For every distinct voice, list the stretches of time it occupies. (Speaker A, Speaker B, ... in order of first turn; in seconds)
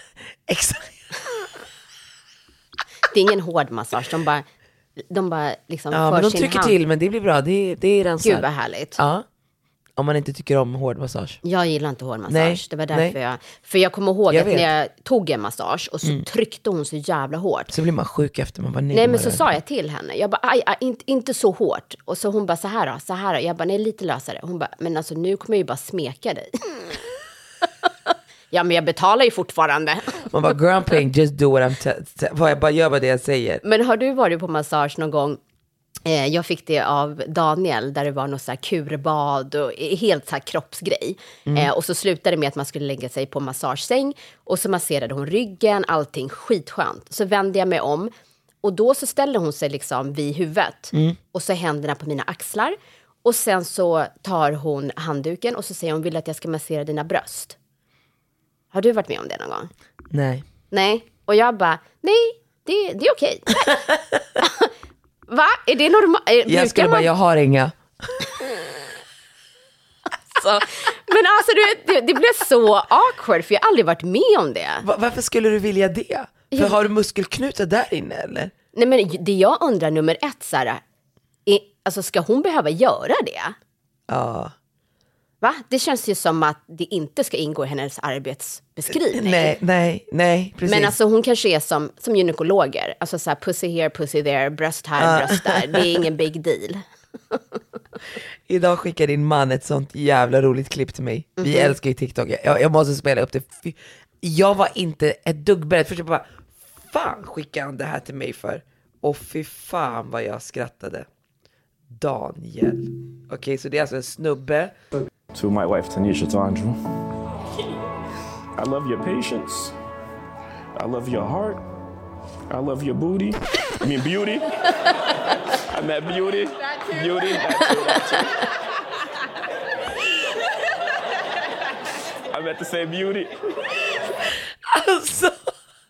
Speaker A: 0.5-1.0, 5.9-8.4, 9.0-9.2, 10.0-11.4, 12.3-13.2, 14.3-14.7, 17.7-19.5, 30.3-33.6, 60.1-60.4, 66.5-68.2, 74.8-78.5, 84.1-84.5, 89.1-90.9, 95.0-95.8, 98.5-111.1, 111.9-114.7, 134.7-135.3
Speaker B: 3.1-4.4, 5.0-6.7, 8.2-9.0, 11.4-17.7, 18.9-27.0, 28.5-30.3, 33.6-35.4, 36.0-48.1, 48.6-57.5, 58.7-59.7, 60.7-63.8, 64.4-64.7, 65.3-67.1, 70.3-74.8, 76.5-76.8, 78.7-80.8, 81.5-83.5, 85.4-89.5, 90.7-97.4, 101.4-101.8
Speaker C: 115.3-116.8, 118.6-119.7, 120.8-121.6, 122.5-124.5, 125.6-128.5, 132.3-133.3